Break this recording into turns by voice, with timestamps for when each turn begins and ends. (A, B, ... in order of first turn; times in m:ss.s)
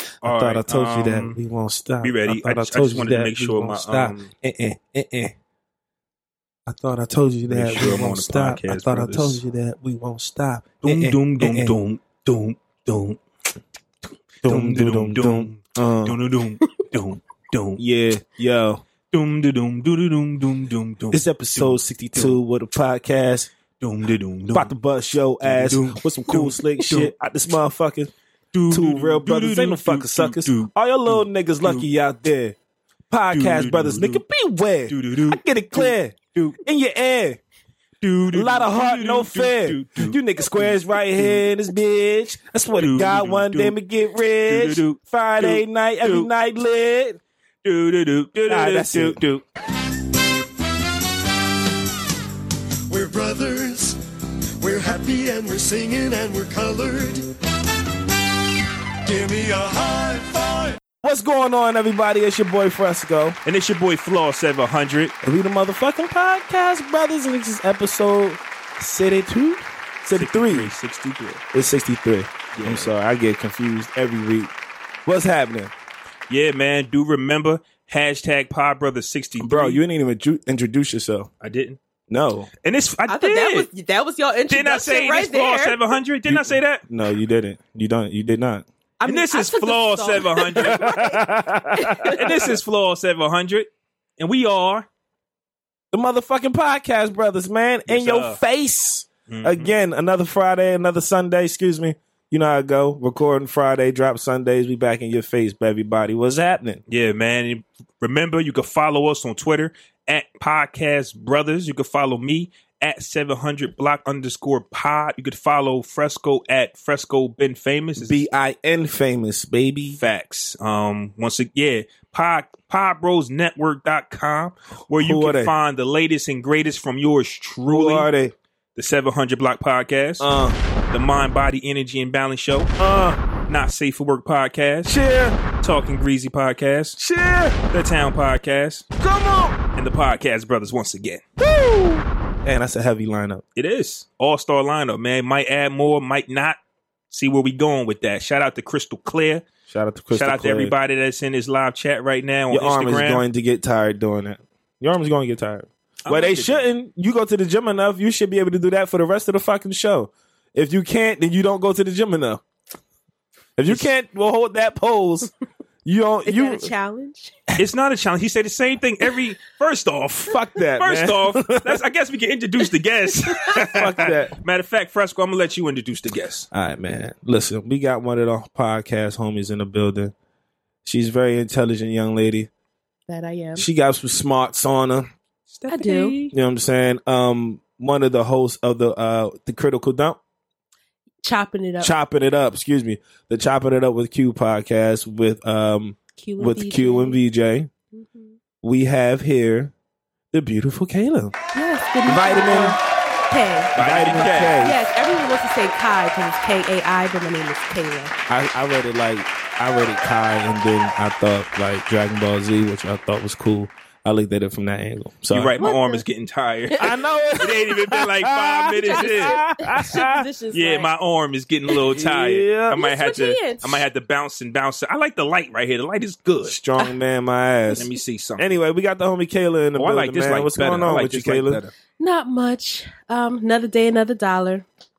0:00.2-0:05.3 A
0:00.2-0:01.4 B
0:02.0-0:04.3 B
0:06.7-0:11.7 A
0:07.5-0:09.4 B
0:10.8-0:13.2 B
0:14.4-0:16.2 A
0:14.4-0:17.8 B
0:17.8-0:18.8 A
0:19.1-0:22.4 B
0:21.1-0:23.5 A
0:23.8-0:24.7 B
0:24.5-0:28.1 A
0:25.4-0:27.1 B
0:28.5-0:31.8 B
0:28.7-0:32.6 A
0:33.1-0:37.4 A
0:33.3-0:34.2 B
0:34.9-0:36.6 B
0:38.0-0:41.5 B
0:38.3-0:47.2 A
0:42.8-0:43.7 B
0:44.4-0:46.3 B
0:47.6-0:49.2 B
0:48.5-0:49.4 A
0:52.9-0:54.0 C
0:54.6-0:57.3 C
0:59.0-1:00.8 C
1:01.0-1:03.4 A
1:03.4-1:05.1 B
1:05.2-1:10.7 A
1:10.1-1:11.4 B
1:11.5-1:14.5 A
1:12.5-1:12.9 B
1:15.0-1:15.7 A
1:16.3-1:19.8 B
1:19.4-1:21.3 A
1:21.4-1:21.8 B
1:22.1-1:22.5 A
1:22.6-1:23.7 B
1:23.1-1:25.9 D
1:24.5-1:26.8 B
1:26.3-1:28.6 A
1:29.0-1:32.4 D
1:29.0-1:31.0 B
1:30.6-1:32.3 A
1:32.1-1:34.9 B
1:35.9-1:46.8 A
1:37.9-1:38.4 B
1:39.3-1:39.7 B
1:46.9-1:58.2 B
1:58.0-2:00.0 A
2:00.0-2:08.1 B
2:04.9-2:05.5 A
2:07.6-2:08.3 A
2:08.8-2:10.3 B
2:10.2-2:10.6 A
2:10.9-2:12.7 B
2:12.8-2:13.2 A
2:13.5-2:14.9 B
2:14.8-2:15.4 A
2:15.6-2:17.0 B
2:17.0-2:17.6 A
2:17.7-2:18.9 B
2:19.0-2:19.6 A
2:19.8-2:21.2 B
2:21.4-2:23.4 A
2:23.6-2:26.6 B
2:27.1-2:29.4 B
2:29.7-2:30.7 A
2:30.1-2:33.2 B
2:32.5-2:42.4 A
2:36.0-2:36.6 B
2:43.6-2:45.3 A
2:45.8-2:46.7 A
2:46.2-2:47.4 D
2:47.6-2:56.5 B
2:50.3-2:51.8 A
2:53.5-2:54.4 A
2:56.5-3:00.1 A
3:00.8-3:02.5 A
3:03.1-3:03.6 D
3:03.6-3:05.1 A
3:05.5-3:06.3 B
3:05.7-3:06.2 D
3:06.3-3:10.2 A
3:11.2-3:11.9 D
3:11.8-3:17.7 A
3:16.2-3:17.2 D
3:17.9-3:18.4 D
3:18.6-3:19.7 A
3:20.3-3:21.3 A
3:21.5-3:22.8 D
3:22.1-3:22.8 A
3:23.3-3:28.1 D
3:23.7-3:24.6 B
3:23.7-3:24.8 A
3:28.3-3:35.6 A
3:35.3-3:36.8 B
3:35.6-3:36.0 D
3:36.7-3:37.4 D
3:36.8-3:40.3 A
3:37.4-3:39.4 B
3:38.9-3:40.9 D
3:40.5-3:46.5 B
3:41.8-3:42.8 A
3:42.7-3:43.8 D
3:46.4-3:51.6 A
3:47.8-3:48.5 B
3:49.8-3:51.7 B
3:52.0-3:54.6 D